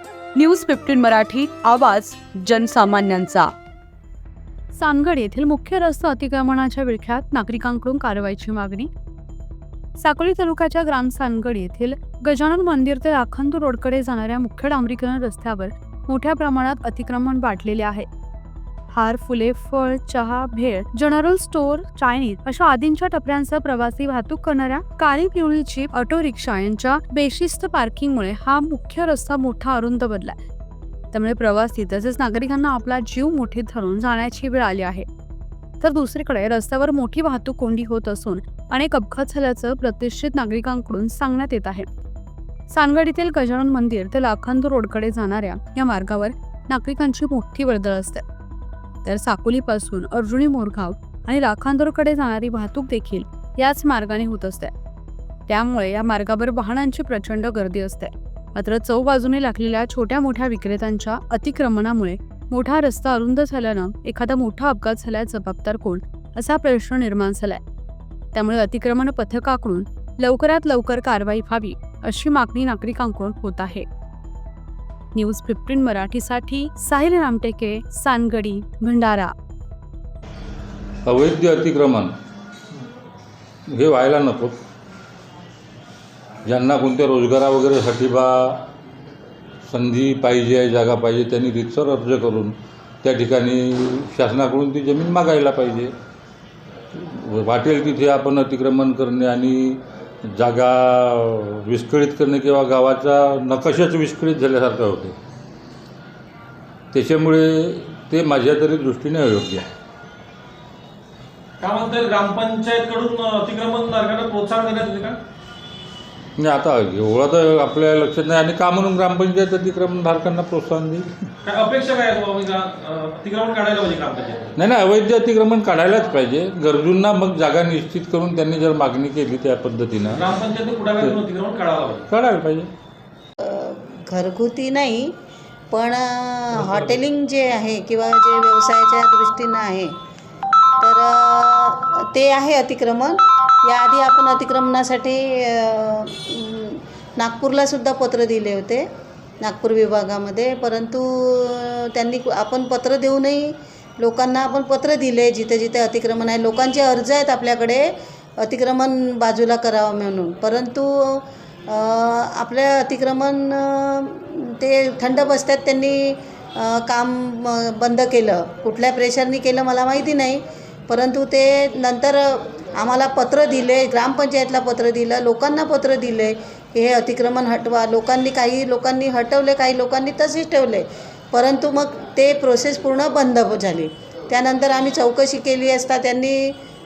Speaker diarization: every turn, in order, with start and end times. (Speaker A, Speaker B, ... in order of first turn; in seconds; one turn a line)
Speaker A: 0.3-3.5
Speaker A: 4.7-8.9
Speaker A: 10.0-18.1
Speaker A: 18.9-30.4
Speaker A: 31.1-35.0
Speaker A: 35.8-41.9
Speaker A: 42.7-48.2
Speaker A: 49.0-54.7
Speaker A: 55.5-67.6
Speaker A: 68.3-73.8
Speaker A: 75.1-79.3
Speaker B: 81.0-82.1
Speaker B: 83.7-84.6
Speaker B: 86.5-88.6
Speaker B: 89.7-95.9
Speaker B: 96.9-105.1
Speaker B: 106.9-109.6
Speaker C: 111.6-115.2
Speaker B: 116.4-121.1
Speaker C: 121.4-124.5
Speaker B: 124.5-130.2
Speaker C: 130.2-132.1
Speaker B: 132.1-132.7
Speaker D: 133.4-135.2
Speaker D: 135.7-139.9
Speaker D: 140.8-148.8
Speaker D: 149.4-157.9
Speaker D: 158.4-186.5